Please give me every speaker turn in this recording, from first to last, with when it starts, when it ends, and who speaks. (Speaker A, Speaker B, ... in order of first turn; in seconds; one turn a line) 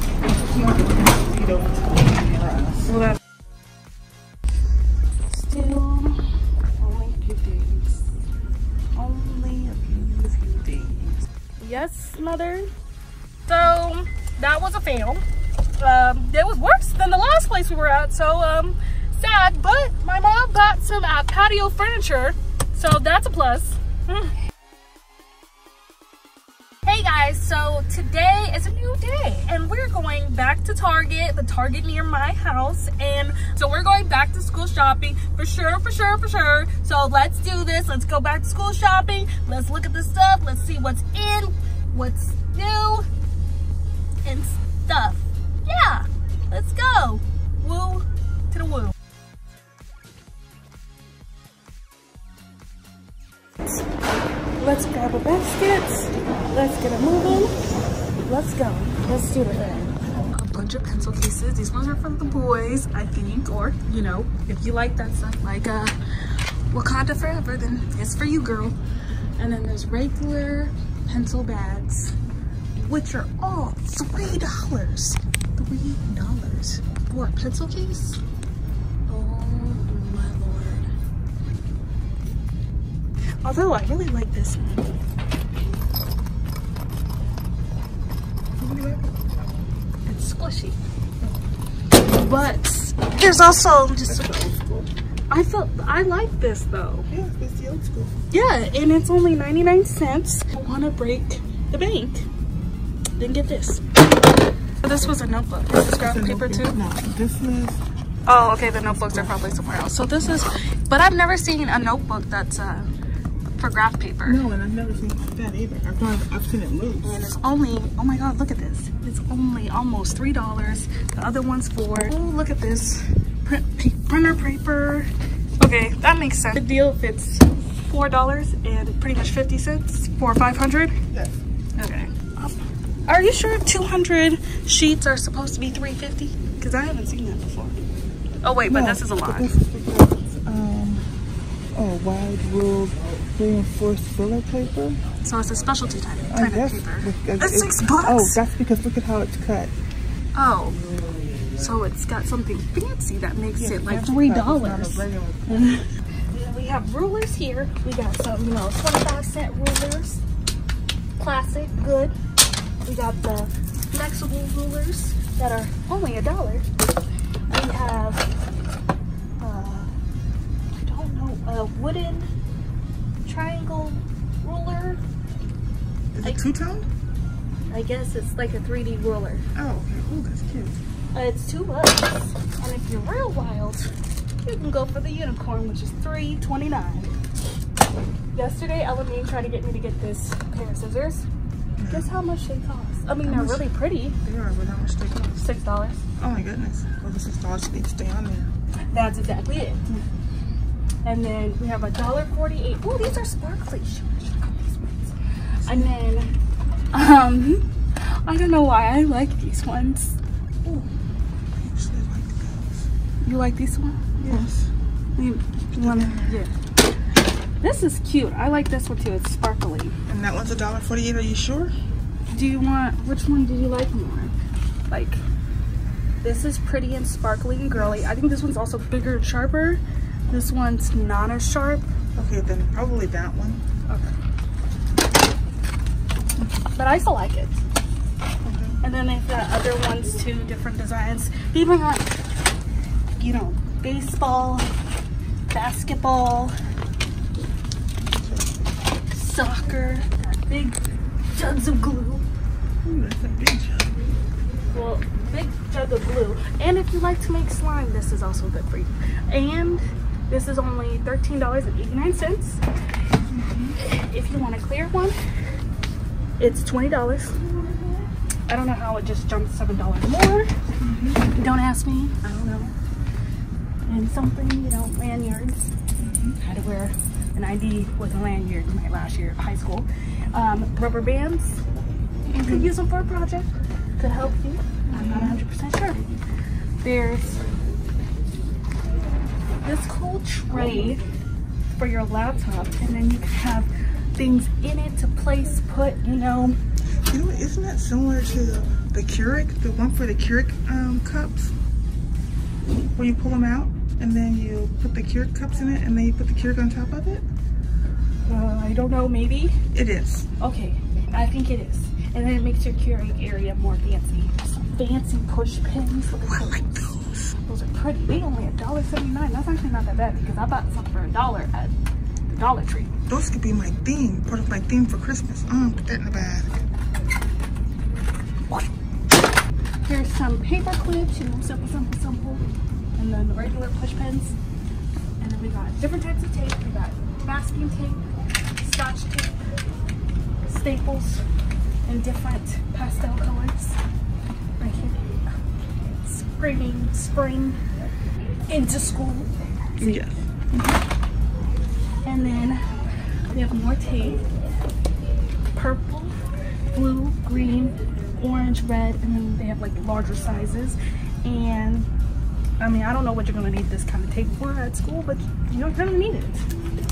Speaker A: 0.3-3.0
Speaker B: 2.9-3.2
Speaker B: 5.3-8.1
Speaker B: 8.9-12.7
Speaker B: 13.5-15.2
Speaker B: 15.8-24.3
Speaker B: 26.9-43.0
Speaker B: 44.2-48.9
Speaker B: 54.6-57.5
Speaker B: 58.2-66.0
Speaker B: 66.7-68.8
Speaker B: 69.4-72.1
Speaker B: 72.7-78.2
Speaker B: 79.1-80.9
Speaker B: 83.4-84.9
Speaker A: 88.6-89.3
Speaker B: 90.0-90.8
Speaker B: 91.9-94.5
Speaker A: 94.1-94.9
Speaker B: 95.3-97.1
Speaker A: 97.1-98.1
Speaker B: 98.3-102.3
Speaker B: 103.2-103.8
Speaker B: 104.8-106.8
Speaker A: 105.8-107.8
Speaker B: 108.3-112.9
Speaker A: 109.0-109.3
Speaker B: 113.6-114.4
Speaker A: 114.2-117.2
Speaker B: 117.0-130.9
Speaker B: 131.8-132.6
Speaker B: 133.1-137.8
Speaker B: 138.4-139.6
Speaker A: 138.6-141.1
Speaker A: 141.7-145.0
Speaker B: 145.2-148.4
Speaker A: 146.3-149.7
Speaker B: 150.3-150.8
Speaker B: 151.6-160.2
Speaker A: 153.6-155.8
Speaker B: 161.2-162.2
Speaker B: 162.8-166.7
Speaker B: 167.5-168.2
Speaker B: 169.4-169.9
Speaker B: 170.7-172.3
Speaker B: 173.2-175.0
Speaker A: 176.1-176.9
Speaker B: 177.7-179.4
Speaker A: 179.5-180.8
Speaker B: 181.1-183.9
Speaker B: 184.4-187.1
Speaker B: 188.3-191.2
Speaker A: 191.8-192.1
Speaker B: 191.9-194.2
Speaker A: 193.2-195.4
Speaker B: 195.3-196.0
Speaker A: 196.2-198.5
Speaker B: 198.9-200.0
Speaker B: 201.0-206.3
Speaker A: 205.7-205.9
Speaker B: 206.9-210.2
Speaker A: 210.6-210.9
Speaker A: 211.5-212.9
Speaker B: 213.2-214.1
Speaker A: 214.2-214.7
Speaker B: 215.2-216.5
Speaker A: 215.8-216.4
Speaker B: 217.6-219.9
Speaker A: 220.1-221.7
Speaker B: 222.3-224.3
Speaker B: 224.9-225.2
Speaker B: 226.2-231.9
Speaker A: 227.7-228.1
Speaker A: 232.2-233.6
Speaker B: 236.7-237.6
Speaker A: 238.4-238.8
Speaker B: 238.8-242.1
Speaker B: 243.2-244.7
Speaker B: 245.5-246.5
Speaker A: 248.1-248.5
Speaker B: 249.1-250.8
Speaker B: 251.3-252.2
Speaker A: 252.8-253.9
Speaker B: 254.7-262.6
Speaker A: 263.3-263.8
Speaker B: 263.8-265.1
Speaker B: 266.4-267.4
Speaker B: 268.5-270.5
Speaker A: 270.8-271.2
Speaker B: 271.3-272.7
Speaker B: 273.9-275.6
Speaker A: 276.0-276.3
Speaker B: 276.4-281.6
Speaker A: 282.3-282.7
Speaker B: 282.3-286.0
Speaker A: 284.9-285.4
Speaker B: 286.8-287.4
Speaker B: 289.6-291.0
Speaker B: 291.7-296.6
Speaker A: 297.0-301.5
Speaker A: 302.9-307.3
Speaker B: 308.2-309.6
Speaker A: 309.7-310.3
Speaker B: 310.4-321.7
Speaker A: 316.3-317.1
Speaker B: 322.3-322.9
Speaker A: 323.1-326.5
Speaker B: 329.8-332.4
Speaker B: 333.0-334.3
Speaker B: 335.2-338.0
Speaker B: 338.6-339.4
Speaker B: 340.4-341.2
Speaker B: 341.9-343.8
Speaker B: 344.6-347.6
Speaker B: 348.5-350.0
Speaker A: 349.8-350.2
Speaker B: 350.5-350.8
Speaker B: 352.0-352.6
Speaker B: 353.3-354.2
Speaker B: 355.5-356.1
Speaker B: 356.7-361.9
Speaker B: 362.6-366.4